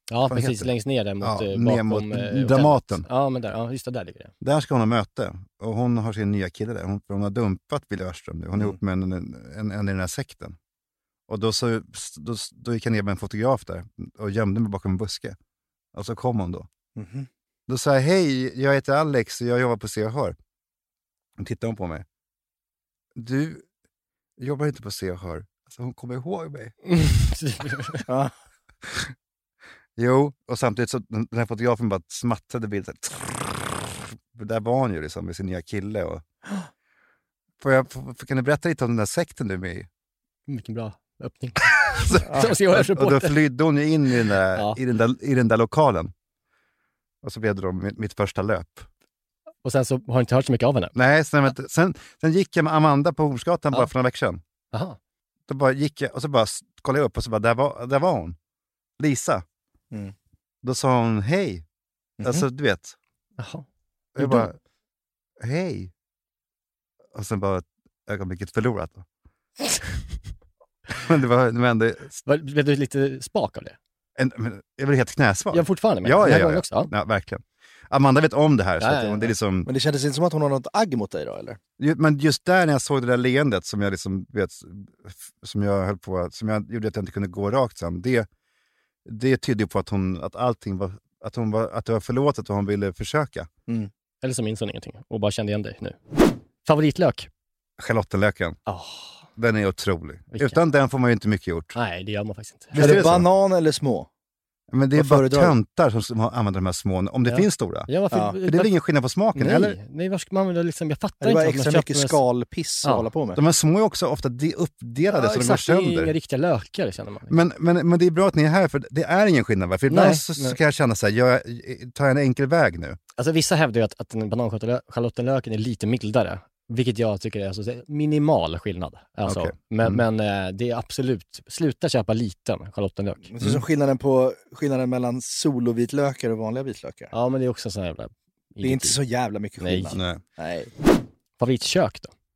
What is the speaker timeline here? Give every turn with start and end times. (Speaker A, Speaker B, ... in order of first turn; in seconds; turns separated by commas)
Speaker A: 0.1-4.3, Speaker B: 0.3-3.1, Speaker B: 4.4-10.6, Speaker B: 11.3-15.4, Speaker B: 15.9-16.7, Speaker C: 17.0-17.3, Speaker B: 17.7-20.4, Speaker B: 21.4-22.1, Speaker B: 23.1-23.7, Speaker B: 24.4-26.7, Speaker A: 26.9-28.1, Speaker B: 28.8-29.1, Speaker B: 30.0-36.2, Speaker B: 37.6-39.9, Speaker A: 40.5-43.4, Speaker B: 42.1-46.1, Speaker B: 47.2-48.9, Speaker A: 49.6-50.9, Speaker B: 50.9-54.4, Speaker A: 54.7-55.0, Speaker B: 55.5-58.4, Speaker B: 59.0-59.4, Speaker B: 60.6-61.6, Speaker C: 62.2-62.5, Speaker B: 62.2-63.0, Speaker A: 63.4-63.7, Speaker B: 64.2-64.6, Speaker A: 64.2-64.5, Speaker B: 65.4-65.9, Speaker B: 67.1-69.1, Speaker B: 70.9-72.2, Speaker A: 72.2-73.8, Speaker B: 74.2-79.7, Speaker A: 75.5-76.9, Speaker A: 78.8-79.3, Speaker C: 79.7-81.6, Speaker B: 81.8-88.3, Speaker B: 89.0-93.5, Speaker A: 94.2-96.0, Speaker A: 96.6-97.3, Speaker B: 97.8-98.6, Speaker A: 98.7-99.3, Speaker B: 99.4-101.8, Speaker A: 100.3-100.6, Speaker A: 101.8-103.1, Speaker B: 102.7-103.2, Speaker C: 102.8-104.1, Speaker B: 104.7-107.9, Speaker C: 105.0-105.5, Speaker A: 107.3-108.7, Speaker B: 108.4-109.8, Speaker A: 109.3-112.2, Speaker C: 111.2-113.4, Speaker B: 113.4-116.1, Speaker A: 115.1-117.4, Speaker B: 117.3-123.0, Speaker A: 119.9-120.6, Speaker A: 123.2-133.3, Speaker B: 129.2-130.0, Speaker C: 133.3-137.1, Speaker A: 137.1-139.0, Speaker C: 138.6-140.7, Speaker A: 139.6-140.0, Speaker B: 139.9-140.2, Speaker A: 141.4-142.1